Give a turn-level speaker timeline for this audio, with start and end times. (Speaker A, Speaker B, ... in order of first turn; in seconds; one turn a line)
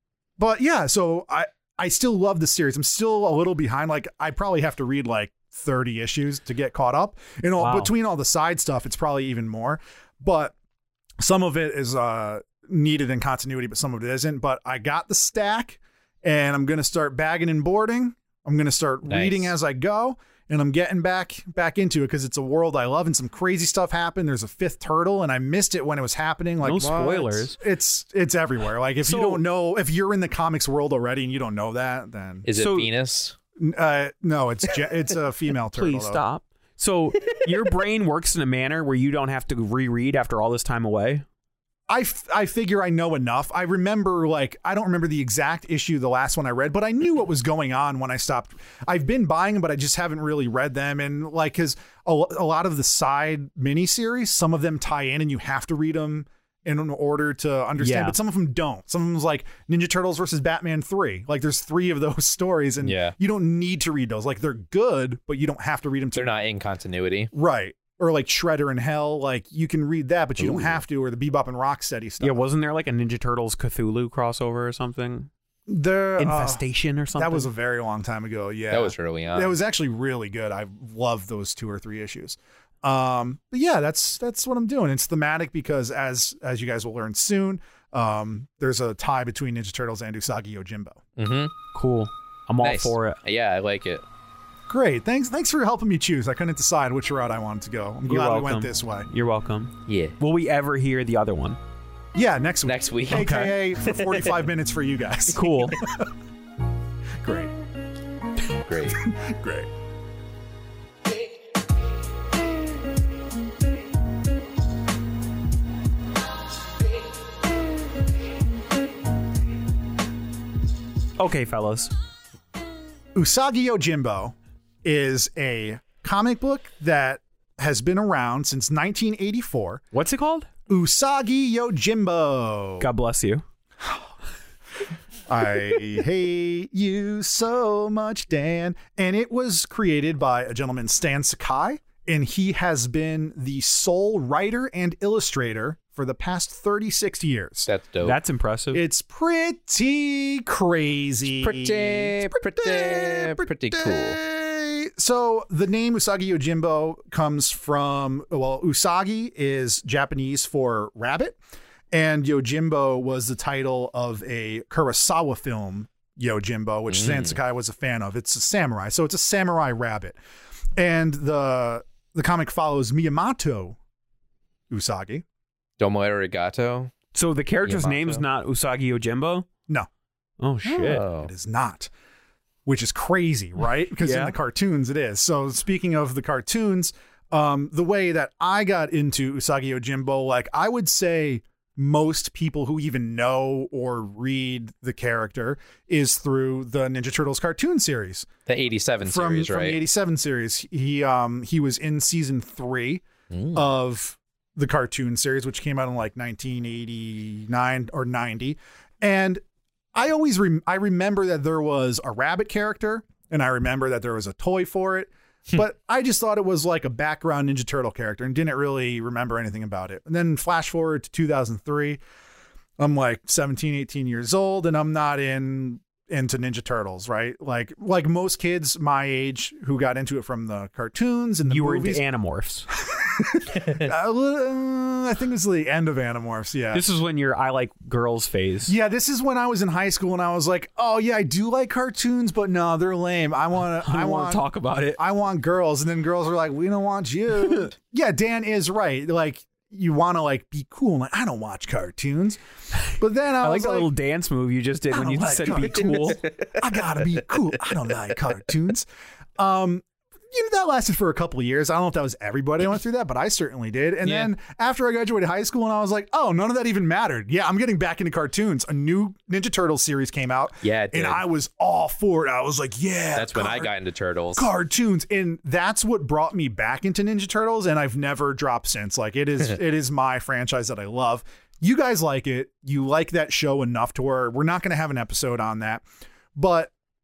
Speaker A: 0.4-10.6
Speaker B: 7.6-7.9
Speaker A: 11.2-32.5
Speaker C: 19.1-19.5
Speaker B: 26.6-27.6
Speaker B: 29.0-29.4
Speaker C: 32.5-33.4
Speaker B: 32.5-32.9
Speaker A: 33.6-36.2
Speaker B: 35.7-41.2
Speaker A: 41.9-66.4
Speaker B: 57.8-58.2
Speaker C: 62.8-63.1
Speaker C: 66.2-67.3
Speaker A: 67.3-72.4
Speaker C: 70.4-70.8
Speaker B: 72.2-75.3
Speaker A: 75.7-76.6
Speaker B: 76.2-77.5
Speaker A: 77.2-91.0
Speaker C: 78.7-79.5
Speaker C: 91.2-91.5
Speaker B: 91.7-93.2
Speaker C: 92.6-94.0
Speaker A: 94.7-99.1
Speaker B: 98.1-101.6
Speaker C: 99.9-100.2
Speaker A: 102.2-106.1
Speaker C: 102.7-104.3
Speaker B: 103.1-103.5
Speaker B: 105.3-105.8
Speaker A: 107.2-107.5
Speaker C: 108.6-109.0
Speaker A: 108.9-109.7
Speaker B: 121.2-121.9
Speaker A: 123.1-129.8
Speaker B: 129.9-130.5
Speaker A: 130.7-132.9
Speaker B: 132.8-133.4
Speaker A: 135.3-147.7
Speaker C: 147.7-148.2
Speaker B: 148.0-148.8
Speaker A: 148.7-161.4
Speaker C: 151.4-154.2
Speaker A: 161.9-170.2
Speaker C: 166.9-167.4
Speaker A: 170.8-173.8
Speaker A: 174.7-175.2
Speaker C: 175.8-176.9
Speaker B: 177.1-179.5
Speaker C: 177.7-178.2
Speaker B: 180.4-181.1
Speaker A: 180.7-181.9
Speaker C: 180.8-181.3
Speaker A: 182.7-198.3
Speaker B: 184.0-184.3
Speaker C: 198.5-199.8
Speaker A: 199.0-209.4
Speaker C: 203.3-203.6
Speaker A: 209.9-222.0
Speaker A: 222.8-232.0
Speaker B: 231.5-232.7
Speaker A: 232.8-236.8
Speaker B: 236.7-238.7
Speaker A: 238.7-244.4
Speaker B: 243.8-245.0
Speaker A: 245.0-252.4
Speaker A: 253.0-253.9
Speaker B: 253.4-256.2
Speaker A: 254.9-258.9
Speaker A: 259.4-273.7
Speaker C: 270.6-271.2
Speaker C: 273.1-274.5
Speaker A: 274.4-285.9
Speaker A: 286.4-286.7